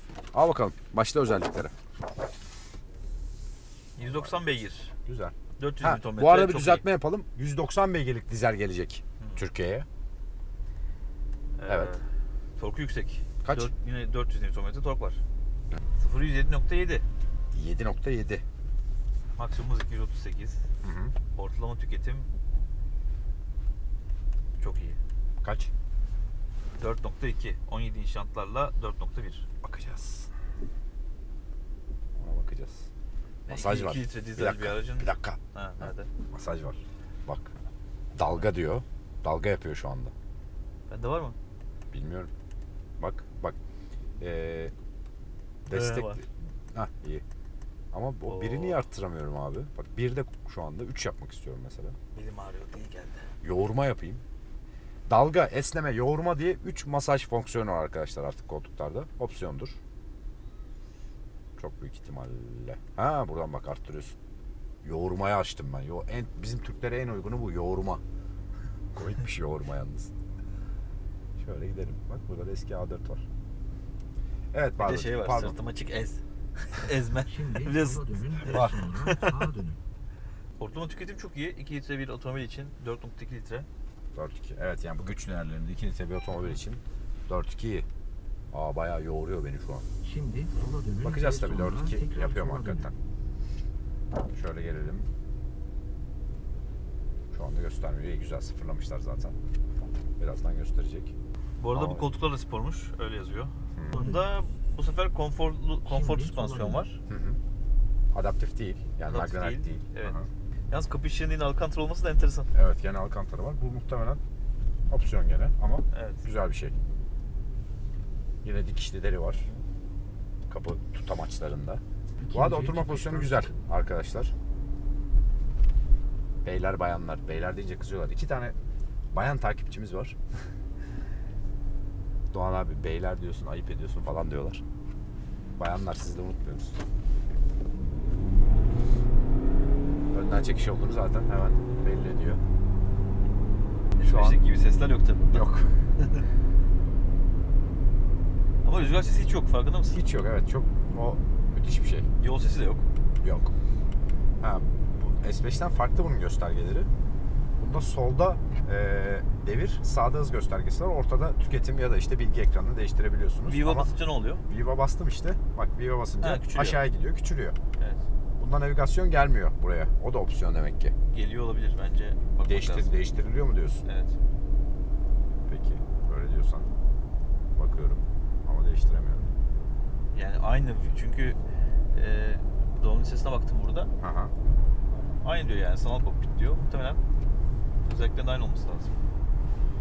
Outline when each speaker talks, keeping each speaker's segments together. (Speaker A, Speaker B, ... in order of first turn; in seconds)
Speaker A: 0.3-1.7, 4.0-9.8, 11.7-11.9, 13.4-13.7, 17.5-18.4, 20.8-21.1, 25.4-25.7, 29.6-30.3, 32.2-32.9, 33.5-37.5, 38.1-40.1, 41.9-42.3, 43.0-43.5, 44.2-44.7, 45.7-47.2, 47.9-51.9, 53.4-54.2, 55.1-59.8, 61.6-64.2, 64.8-68.0, 68.9-70.1, 71.4-73.2, 74.5-75.6, 78.5-78.8, 84.1-87.8, 88.5-89.8, 91.0-92.9, 94.3-95.1, 97.3-99.4, 100.2-101.1, 101.7-102.0, 103.8-104.0, 107.1-107.4, 108.1-110.3, 112.5-114.2, 114.9-116.7, 118.4-119.4, 120.5-124.3, 126.4-128.5, 129.1-130.2, 132.3-134.6, 135.6-136.8, 140.1-142.4, 144.0-144.4, 145.3-145.7, 149.9-152.1, 153.2-153.5, 154.4-156.9, 157.6-163.9, 164.5-167.6, 168.4-170.9, 172.4-173.8, 175.5-176.7, 177.6-179.3, 184.0-184.3
Speaker B: 4.0-4.9, 5.6-6.8, 11.6-12.0, 12.6-15.2, 16.0-17.0, 19.4-20.6, 21.3-22.3, 24.6-25.0, 26.8-29.5, 33.5-36.1, 40.9-41.4, 45.7-46.2, 48.3-48.8, 52.1-53.3, 74.8-79.3, 80.6-83.7, 101.6-107.0, 109.1-110.1, 110.7-112.5, 115.9-116.2, 144.0-145.4, 148.6-150.0, 152.2-152.8, 163.4-164.4, 166.2-166.8, 167.8-168.0, 171.1-173.0, 173.8-174.1, 180.1-181.4, 181.9-183.9, 185.2-187.0, 187.8-188.9
Speaker C: 77.2-79.8, 90.0-92.9, 103.9-104.2, 105.8-106.9, 122.2-123.5